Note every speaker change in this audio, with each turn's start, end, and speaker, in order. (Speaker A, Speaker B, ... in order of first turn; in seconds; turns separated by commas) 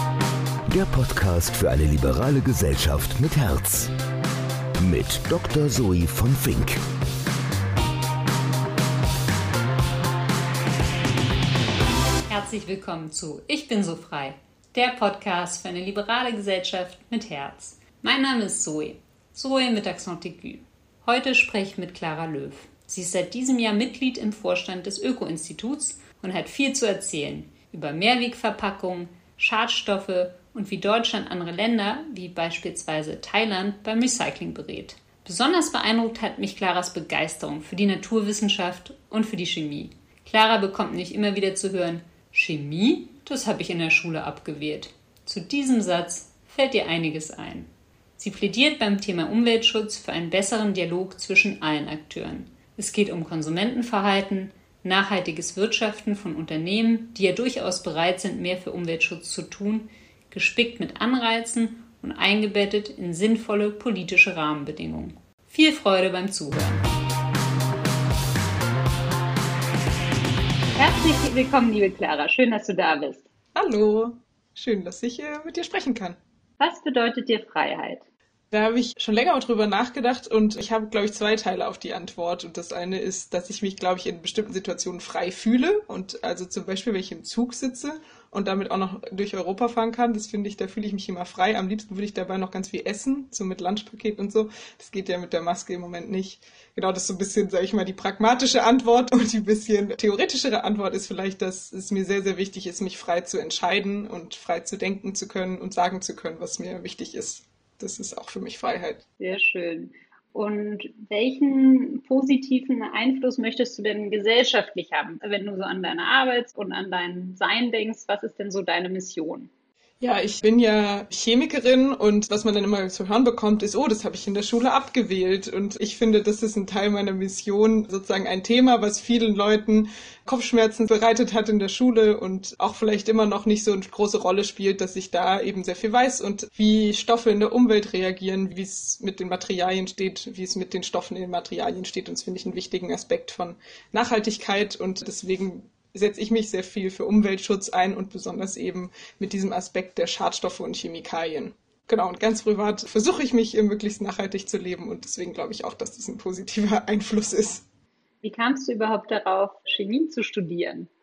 Speaker A: 0.7-3.9, Speaker A: 4.8-6.8, Speaker B: 12.3-66.8, Speaker B: 70.8-73.2, Speaker C: 73.5-76.2, Speaker B: 76.6-78.1, Speaker C: 78.5-109.0, Speaker B: 109.2-119.5, Speaker C: 120.0-157.6, Speaker B: 158.2-160.9